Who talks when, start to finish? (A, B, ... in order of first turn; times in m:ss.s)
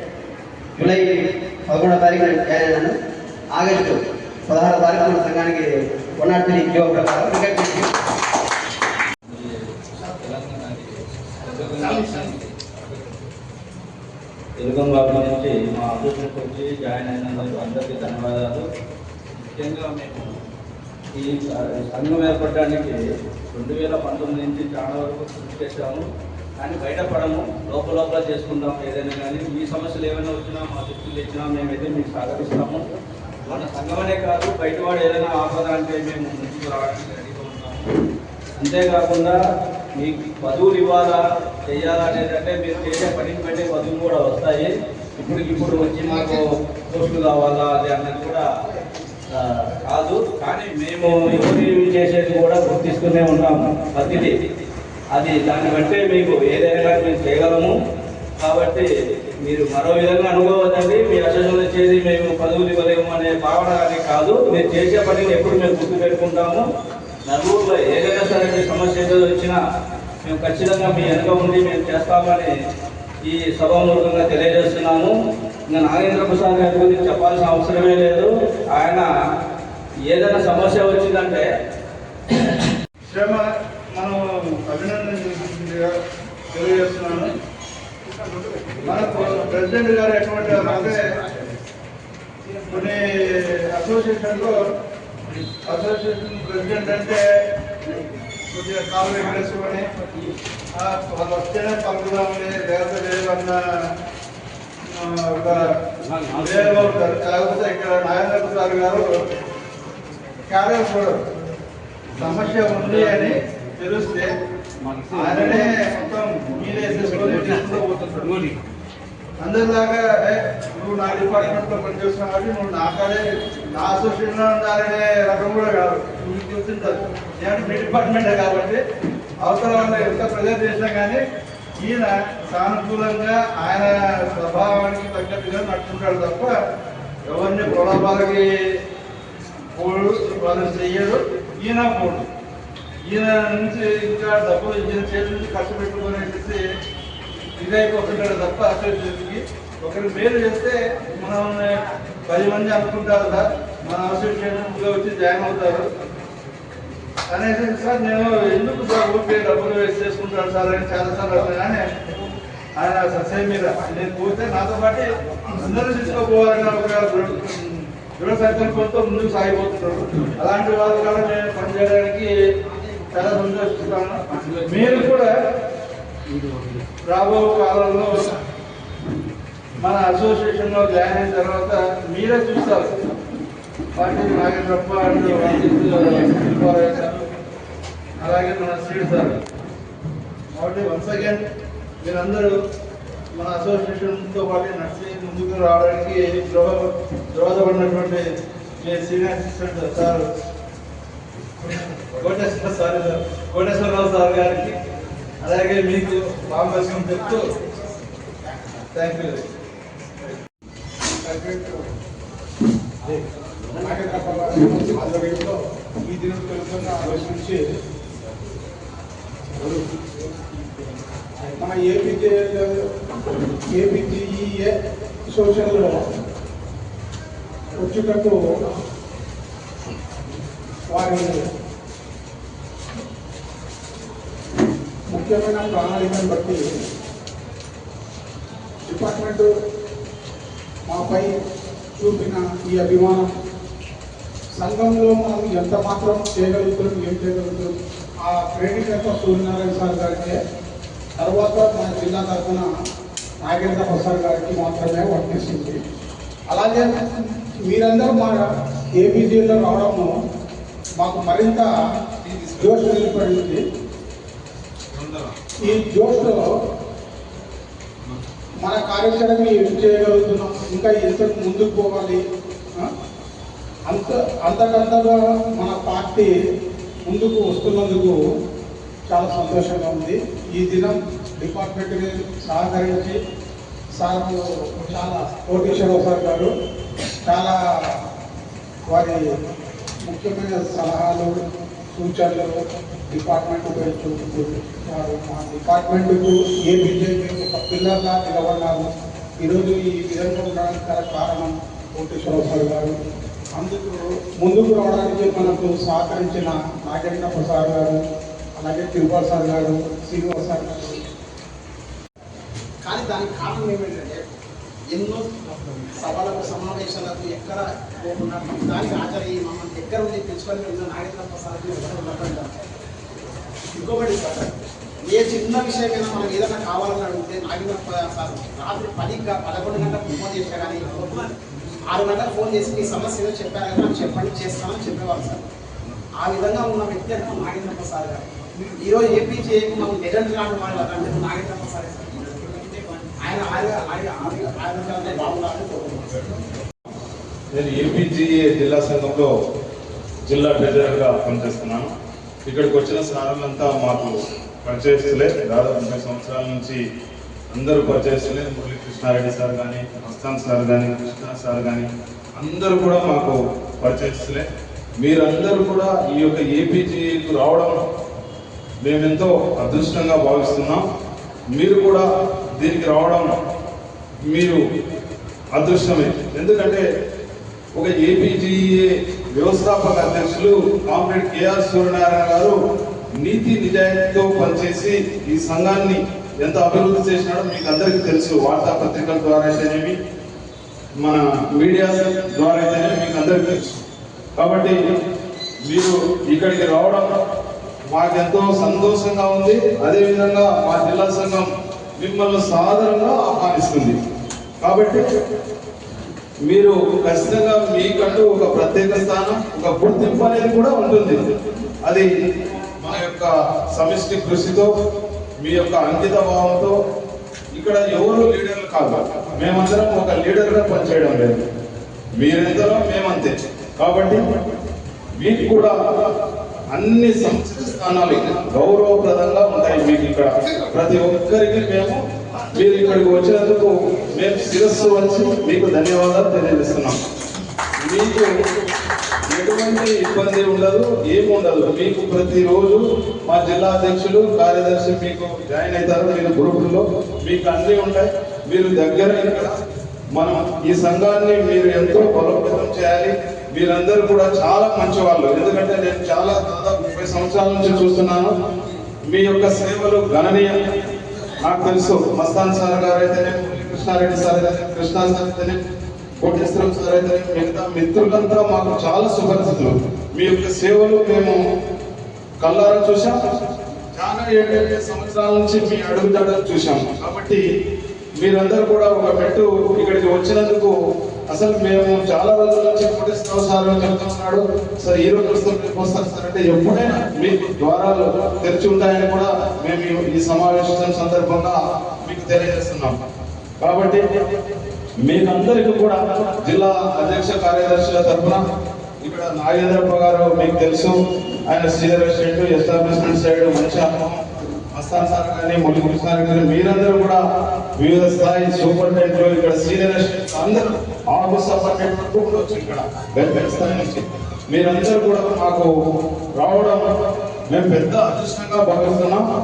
0:00.8-0:02.9 A
0:03.5-0:07.9 A
0:09.3-0:13.3 B
0:14.6-0:18.6 B
0:19.4-0:20.3 B
0:21.2-0:23.0 B
0:23.5-0:26.0 B
0:26.6-0:32.8 B
0:33.5-0:37.9 B
0:38.6-0:39.4 B
0:40.0-0:48.5 B
0:49.7-0:54.3 B
0:55.1-0:57.7 B
0:58.4-0:58.8 B
0:59.4-1:06.6 B
1:07.3-1:09.6 B
1:10.2-1:12.5 B
1:13.2-1:15.1 B
1:15.7-1:19.1 B
1:20.0-1:21.5 B
1:23.1-1:25.9 C
1:26.5-1:27.3 C
1:28.5-1:28.7 D
1:28.8-1:31.2 C
1:30.4-1:31.6 D
1:32.7-1:34.6 C
1:35.6-1:37.2 C
1:38.5-1:39.9 C
1:40.8-1:43.6 C
1:44.9-1:45.6 C
1:46.1-1:47.0 B
1:46.3-1:49.1 C
1:50.5-1:51.1 C
1:52.2-1:54.3 C
1:52.8-1:53.3 B
1:54.8-1:55.6 B
1:55.1-1:58.3 C
1:56.9-1:57.6 B
1:59.4-2:03.2 C
2:03.8-2:08.8 C
2:09.4-2:11.2 C
2:11.8-2:16.5 C
2:17.3-2:18.5 C
2:19.8-2:22.2 C
2:23.1-2:26.6 C
2:27.6-2:35.9 C
2:37.3-2:41.9 C
2:42.8-2:52.3 C
2:53.1-2:55.3 C
2:57.1-2:58.3 C
2:59.8-3:02.9 C
3:04.0-3:07.2 C
3:08.2-3:09.3 C
3:10.6-3:11.4 C
3:12.0-3:12.5 C
3:13.4-3:16.8 C
3:17.4-3:18.2 C
3:18.8-3:20.2 C
3:22.2-3:24.8 C
3:25.4-3:27.6 C
3:26.6-3:28.8 D
3:28.9-3:29.4 C
3:31.0-3:31.9 E
3:33.8-3:37.6 E
3:41.5-3:42.8 E
3:43.7-3:44.7 E
3:45.3-3:46.0 E
3:47.8-3:48.4 E
3:50.9-3:51.3 E
3:55.1-3:56.6 E
3:58.9-3:59.5 E
4:00.9-4:01.3 E
4:02.0-4:03.3 E
4:04.6-4:07.7 E
4:08.2-4:10.4 E
4:11.2-4:12.7 E
4:13.4-4:15.8 E
4:16.5-4:20.1 E
4:21.0-4:21.7 E
4:22.2-4:22.8 F
4:22.6-4:23.6 E
4:24.9-4:25.8 F
4:25.6-4:26.4 E
4:28.6-4:32.2 E
4:33.9-4:36.3 E
4:37.1-4:38.2 E
4:39.1-4:43.2 E
4:44.0-4:46.5 E
4:47.2-4:47.6 E
4:48.9-4:49.2 E
4:50.1-4:51.4 E
4:51.9-4:58.9 E
4:59.4-5:03.0 E
5:03.6-5:08.0 E
5:08.6-5:11.0 E
5:12.8-5:14.3 D
5:14.9-5:22.5 D
5:23.6-5:31.3 D
5:31.9-5:35.4 D
5:36.2-5:46.4 D
5:47.5-5:49.3 F
5:50.3-5:51.9 F
5:52.5-5:56.8 F
5:57.5-6:04.5 F
6:05.0-6:07.8 F
6:08.8-6:10.8 F
6:11.5-6:13.3 F
6:14.3-6:14.6 F
6:15.5-6:16.8 F
6:17.8-6:22.6 F
6:23.2-6:30.0 F
6:31.0-6:33.8 F
6:34.4-6:34.8 F
6:35.7-6:37.1 F
6:37.9-6:44.0 F
6:44.6-6:45.0 F
6:46.5-6:51.2 F
6:52.8-6:54.7 F
6:55.4-6:56.8 F
6:57.5-7:01.4 F
7:02.2-7:04.2 F
7:05.2-7:05.8 F
7:06.7-7:12.0 F
7:12.5-7:17.0 F
7:17.8-7:18.3 F
7:19.3-7:29.6 F
7:30.2-7:38.3 F
7:39.1-7:40.6 F
7:41.4-7:45.6 F
7:46.2-7:51.4 F
7:52.4-7:53.2 F
7:54.0-7:57.4 F
7:58.2-8:00.8 F
8:01.3-8:13.0 F
8:13.6-8:14.0 F
8:15.0-8:18.4 F
8:19.0-8:21.0 F
8:21.5-8:24.2 F
8:24.7-8:27.2 F
8:27.8-8:35.7 F
8:36.4-8:36.8 F
8:37.5-8:39.2 F